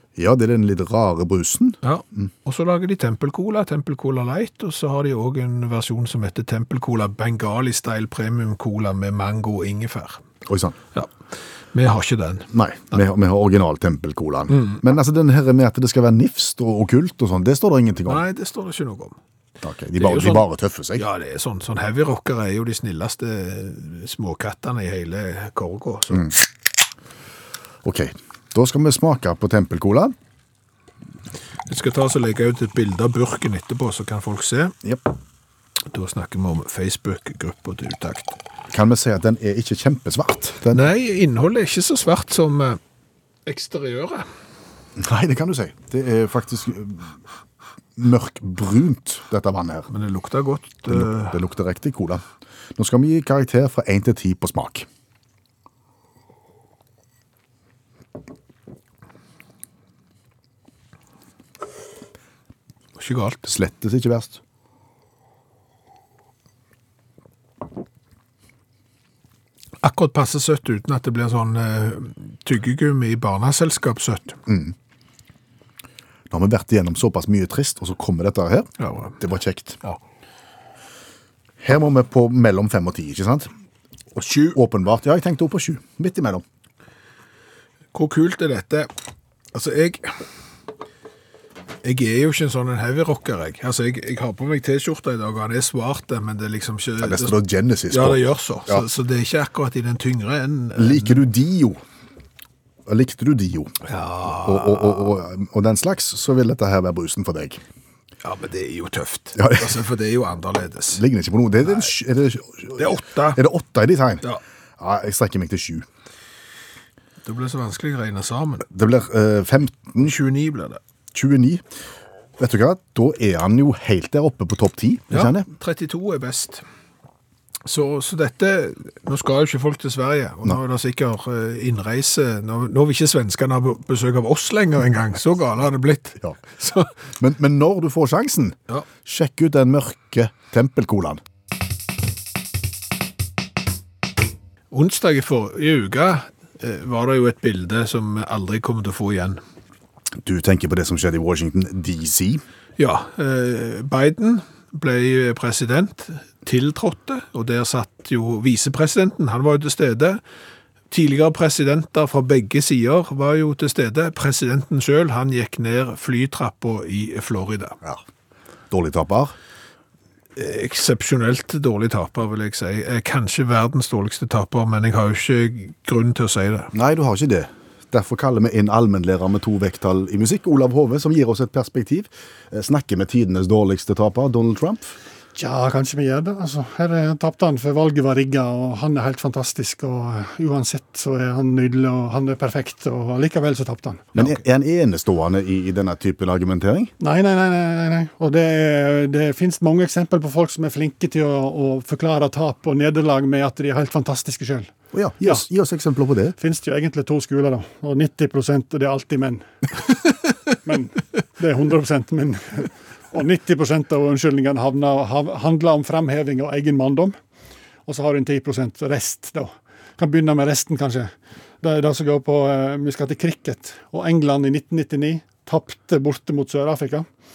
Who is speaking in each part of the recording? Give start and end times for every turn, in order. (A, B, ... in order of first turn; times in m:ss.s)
0:00.2-0:02.2 A
0:01.8-0:10.2 B
0:10.4-0:10.7 A
0:11.7-0:13.0 B
0:12.5-0:18.2 A
0:14.5-0:14.8 B
0:18.0-0:19.2 B
0:19.6-0:21.0 A
0:20.0-0:26.4 B
0:27.8-0:30.1 A
0:31.7-0:34.7 B
0:35.9-0:38.4 B
0:38.7-0:40.8 A
0:40.7-0:42.8 B
0:43.4-0:44.3 B
0:45.0-0:47.2 A
0:48.0-0:49.9 A
0:49.9-0:51.4 B
0:50.9-0:52.2 A
0:52.8-0:54.9 A
1:03.0-1:03.4 B
1:03.4-1:04.4 A
1:09.8-1:14.4 B
1:14.5-1:14.7 A
1:16.3-1:19.8 A
1:18.8-1:19.2 B
1:21.6-1:23.5 A
1:24.1-1:26.4 A
1:27.9-1:28.9 B
1:29.5-1:30.2 B
1:31.8-1:37.4 B
1:37.0-1:38.8 A
1:37.9-1:41.2 B
1:40.8-1:41.8 A
1:42.8-1:43.7 A
1:43.8-1:45.1 B
1:44.2-1:47.6 A
1:48.2-1:51.0 B
1:49.4-1:49.7 A
1:50.9-1:54.2 A
1:52.8-1:53.4 B
1:54.8-1:55.9 A
1:57.2-1:58.6 B
1:58.6-2:00.1 A
2:00.0-2:00.8 B
2:01.1-2:01.6 A
2:02.4-2:05.4 A
2:05.1-2:06.6 B
2:07.6-2:16.9 B
2:17.2-2:21.2 A
2:24.7-2:29.4 B
2:30.2-2:32.4 A
2:32.8-2:40.2 B
2:40.9-2:47.8 B
2:48.7-2:49.3 A
2:50.4-2:56.7 B
2:56.7-3:04.9 A
3:05.3-3:14.2 C
3:14.1-3:16.9 A
3:17.0-3:24.7 C
3:24.9-3:26.3 A
3:26.4-3:29.4 C
3:30.6-3:37.2 C
3:37.8-3:41.1 C
3:41.6-3:47.0 C